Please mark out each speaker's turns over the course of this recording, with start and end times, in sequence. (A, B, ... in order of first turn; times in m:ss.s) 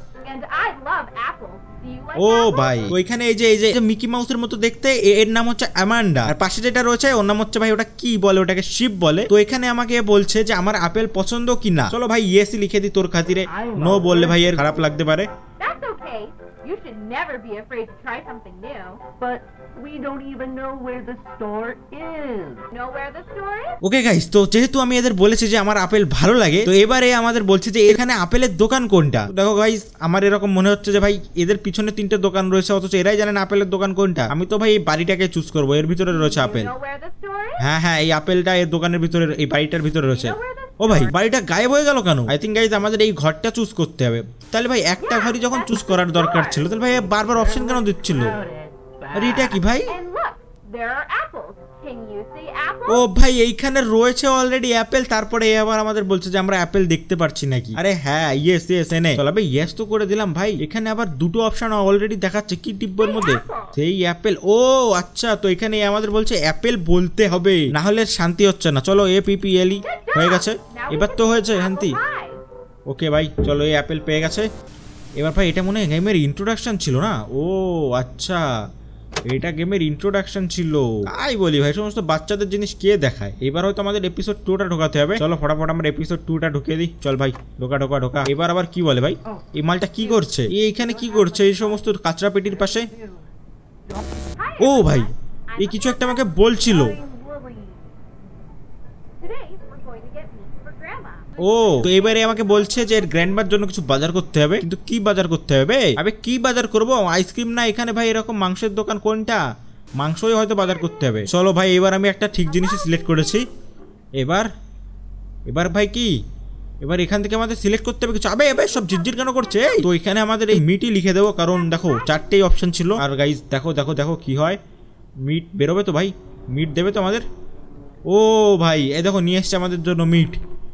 0:00.2-0:03.0 A
0:02.2-0:15.3 B
0:13.5-0:14.6 C
0:15.6-0:19.0 A
0:19.2-0:22.7 C
0:22.7-0:23.8 A
0:23.8-0:36.7 B
0:36.1-0:37.6 A
0:37.6-0:48.4 B
0:40.1-0:41.1 A
0:45.0-0:46.8 A
0:46.8-0:49.6 C
0:49.1-0:50.0 B
0:49.9-0:53.0 A
0:52.9-1:12.0 B
1:03.0-1:03.8 A
1:09.8-1:12.4 A
1:12.9-1:14.5 B
1:15.2-1:18.4 B
1:19.3-1:32.9 B
1:30.8-1:31.9 C
1:32.5-1:33.3 C
1:33.9-1:34.4 C
1:34.4-1:36.3 A
1:34.6-1:37.0 B
1:36.6-1:38.2 C
1:39.2-1:43.6 A
1:41.4-1:49.4 B
1:50.0-1:53.4 B
1:54.2-1:54.5 B
1:55.5-1:56.1 B
1:56.8-2:04.6 B
2:05.2-2:07.2 B
2:08.1-2:10.4 B